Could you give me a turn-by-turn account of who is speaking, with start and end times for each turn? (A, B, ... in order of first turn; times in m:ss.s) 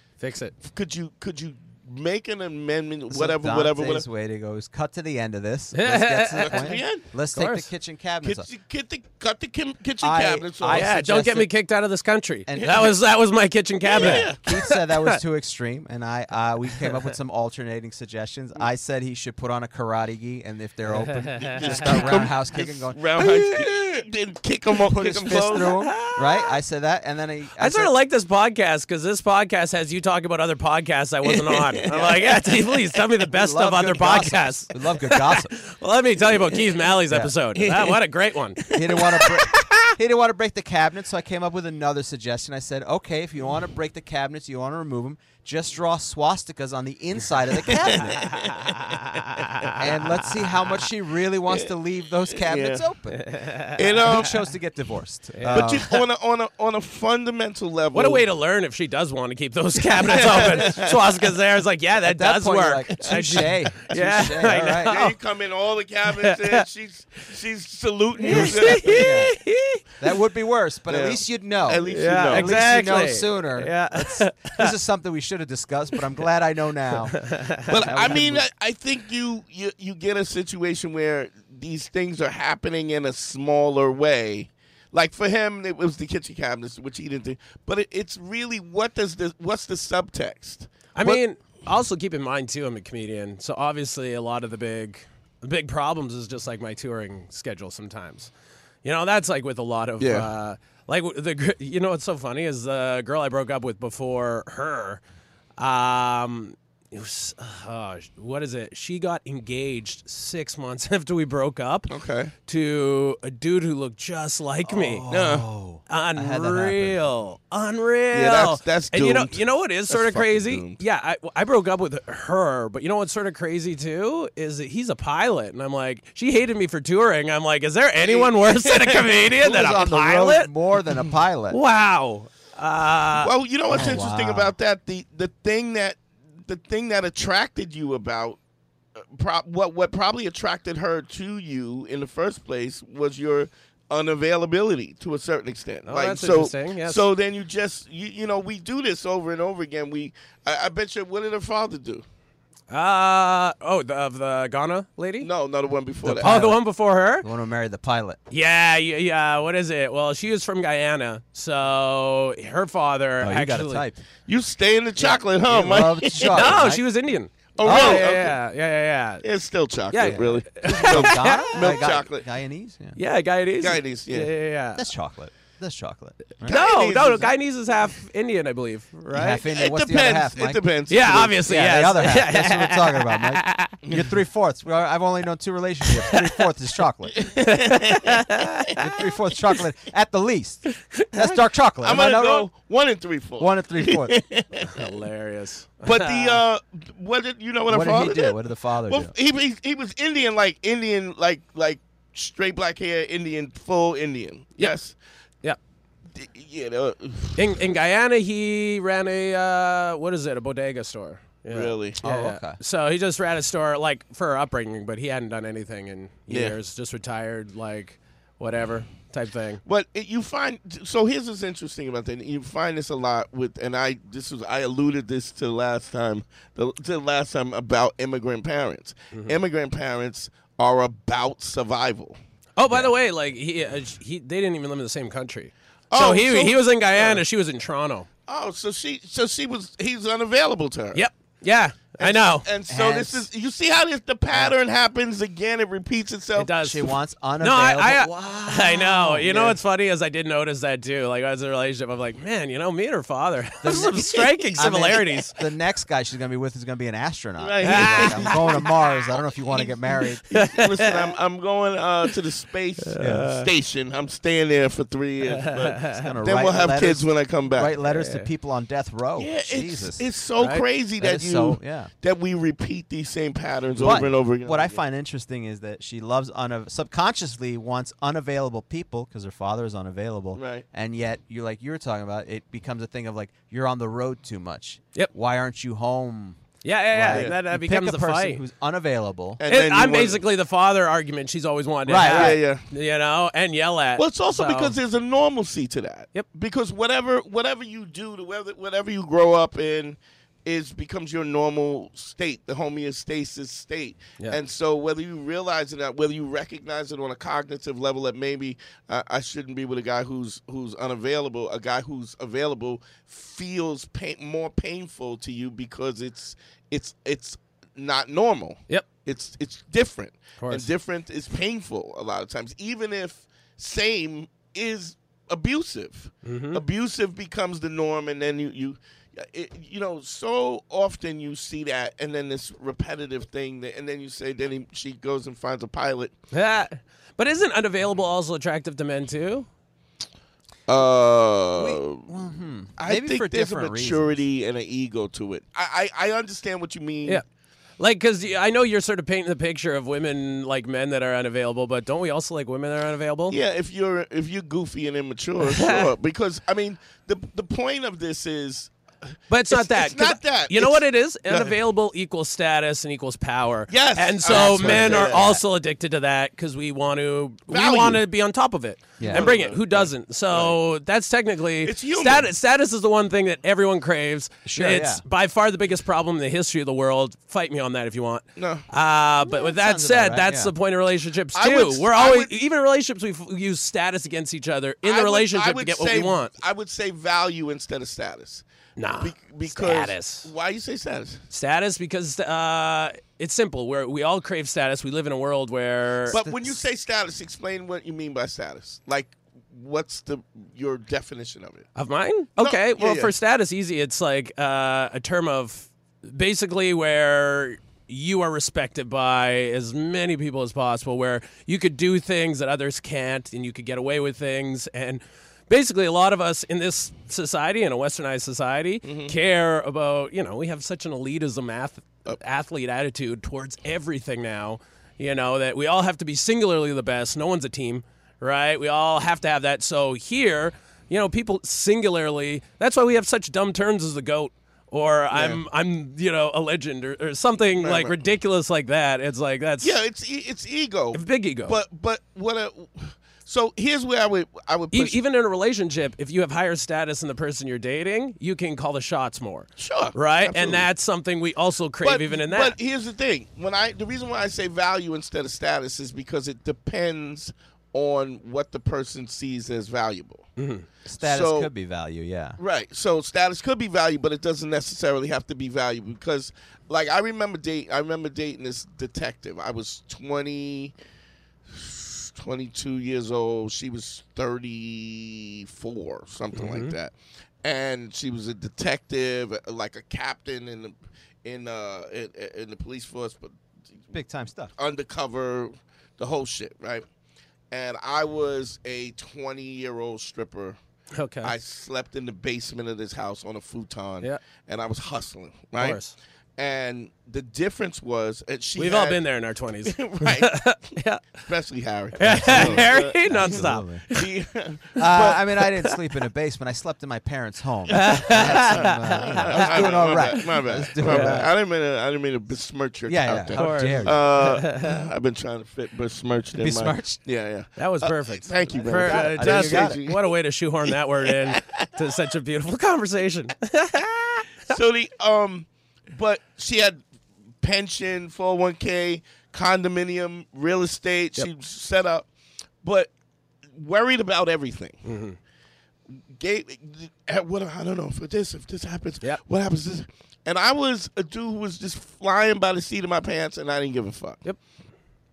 0:00.2-0:00.5 A
0:00.6-0:04.0 B
0:03.1-0:08.5 C
0:05.7-0:06.7 A
0:06.4-0:07.0 B
0:07.3-0:07.7 A
0:08.2-0:10.9 B
0:10.0-0:11.5 C
0:10.7-0:15.2 A
0:12.5-0:12.8 C
0:12.6-0:12.9 B
0:13.8-0:14.4 B
0:14.0-0:23.6 C
0:21.4-0:25.7 B
0:21.4-0:22.1 A
0:24.9-0:27.9 C
0:25.5-0:26.5 A
0:27.6-0:39.9 A
0:31.2-0:32.3 B
0:33.3-0:35.5 C
0:37.6-0:38.0 B
0:38.6-0:39.3 B
0:38.7-0:48.3 C
0:47.7-0:48.8 B
0:48.2-0:49.8 A
0:49.8-0:53.2 C
0:52.3-0:52.9 B
0:53.1-0:54.0 A
0:53.8-0:54.4 B
0:54.0-0:55.9 C
0:55.3-0:55.8 A
0:55.5-0:58.2 B
0:57.9-1:05.1 A
1:00.0-1:01.0 B
1:02.0-1:05.0 C
1:03.0-1:09.2 B
1:06.2-1:06.6 A
1:08.2-1:09.8 A
1:08.3-1:09.4 C
1:10.0-1:18.5 C
1:10.9-1:12.5 B
1:11.8-1:14.7 A
1:17.2-1:17.7 A
1:17.7-1:31.2 B
1:31.0-1:38.3 A
1:38.8-1:45.0 A
1:40.0-1:40.3 B
1:45.6-1:51.9 A
1:51.9-1:52.3 B
1:52.5-1:55.1 A
1:54.6-1:57.1 C
1:55.1-1:55.5 B
1:55.9-2:10.5 A
1:58.1-2:00.8 B
2:08.0-2:09.1 B
2:09.4-2:11.6 C
2:11.5-2:13.3 A
2:13.2-2:18.4 B
2:13.7-2:14.5 C
2:19.0-2:32.0 B
2:25.9-2:27.0 A
2:32.7-2:35.3 A
2:35.2-2:36.5 B
2:36.0-2:36.6 C
2:36.2-2:37.3 A
2:37.2-2:38.2 C
2:38.3-2:43.8 A
2:43.2-2:44.0 C
2:44.3-2:46.6 B
2:45.0-2:46.8 C
2:46.2-2:49.2 A
2:47.6-2:48.4 B
2:47.6-2:48.1 C
2:49.2-2:52.3 B
2:49.9-2:51.7 A
2:50.0-2:53.0 C
2:53.0-2:54.8 A
2:53.6-2:54.3 B
2:54.7-2:56.6 C
2:56.4-2:57.3 B
2:56.4-2:59.4 A
2:59.1-3:00.6 C
2:59.5-3:01.5 B
3:00.9-3:03.8 A
3:01.4-3:07.3 C
3:03.8-3:04.2 B
3:07.2-3:08.2 B
3:07.4-3:08.8 A
3:08.8-3:12.5 C
3:11.0-3:11.3 A
3:11.8-3:14.9 B
3:13.4-3:14.2 C
3:14.6-3:16.4 A
3:15.8-3:24.9 B
3:17.7-3:19.1 C
3:26.1-3:27.4 B
3:27.4-3:39.6 A
3:31.5-3:32.0 B
3:32.0-3:32.6 C
3:36.3-3:36.6 B
3:39.6-3:52.2 B
3:52.6-3:58.1 A
3:55.9-3:57.2 B
3:58.3-4:01.1 B
4:00.9-4:02.5 A
4:02.0-4:06.5 B
4:02.7-4:03.3 C
4:06.4-4:06.9 A
4:06.6-4:09.5 C
4:07.4-4:15.4 A
4:09.3-4:09.5 B
4:13.6-4:20.2 C
4:17.4-4:18.7 B
4:17.6-4:18.6 A
4:19.5-4:27.7 B
4:20.3-4:21.1 A
4:22.9-4:23.4 A
4:23.0-4:23.3 C
4:25.4-4:26.0 A
4:25.9-4:30.0 C
4:27.9-4:28.3 A
4:29.2-4:34.8 B
4:30.4-4:30.6 A
4:31.0-4:31.9 C
4:33.8-4:46.4 C
4:40.4-4:40.6 B
4:46.6-4:48.4 A
4:46.9-4:49.4 C
4:47.1-4:47.4 B
4:49.4-4:50.2 B
4:49.5-4:54.8 A
4:51.9-4:52.4 C
4:52.0-4:52.6 B
4:54.0-5:36.1 B
5:20.4-5:20.7 A
5:26.2-5:26.6 A
5:36.3-5:39.5 A
5:40.7-5:42.1 B
5:41.6-5:44.2 C
5:42.8-5:47.2 B
5:47.8-5:53.4 A
5:53.3-6:01.6 B
5:55.4-5:55.9 A
5:59.3-6:26.3 A
6:03.7-6:05.2 B
6:04.3-6:05.4 C
6:07.5-6:08.0 B
6:09.0-6:09.3 C
6:09.0-6:10.6 B
6:11.6-6:12.3 B
6:14.4-6:15.0 C
6:18.4-6:18.6 B
6:19.2-6:20.5 C
6:21.4-6:22.3 B
6:24.8-6:28.4 B
6:28.8-6:30.3 A
6:29.0-6:31.2 B
6:31.3-6:36.2 A
6:36.1-6:41.7 B
6:36.1-6:36.6 C
6:41.8-7:19.8 A
6:42.4-6:43.1 B
6:58.8-6:59.1 B
7:15.1-7:15.4 B
7:17.6-7:18.0 B
7:19.6-7:25.0 B
7:20.9-7:21.6 A
7:24.7-7:32.5 A
7:29.6-7:30.7 B
7:31.8-7:40.2 B
7:40.4-7:40.6 A
7:40.9-7:42.4 C
7:41.0-7:41.5 B
7:42.4-7:50.7 B
7:51.5-7:56.9 B
7:56.4-7:56.7 A
7:57.4-8:03.3 B
8:03.9-8:04.5 C
8:04.6-8:06.8 B
8:07.5-8:10.6 B
8:11.0-8:11.3 A
8:11.2-8:15.8 B
8:15.6-8:15.9 A
8:16.4-8:19.0 B
8:18.6-8:21.0 A
8:19.6-8:25.3 B
8:22.0-8:24.1 A
8:22.2-8:23.8 C
8:24.8-8:31.3 C
8:27.7-8:29.8 A
8:27.7-8:40.1 B
8:30.8-8:31.3 A
8:32.9-8:34.2 C
8:33.4-8:34.8 A
8:36.4-8:37.0 C
8:37.6-8:44.3 A
8:38.6-8:39.8 C
8:40.7-8:41.7 B
8:44.5-8:46.8 B
8:47.4-8:52.1 B
8:52.6-8:52.9 B
8:53.5-8:54.8 B
8:54.9-8:55.2 A
8:56.1-9:04.2 B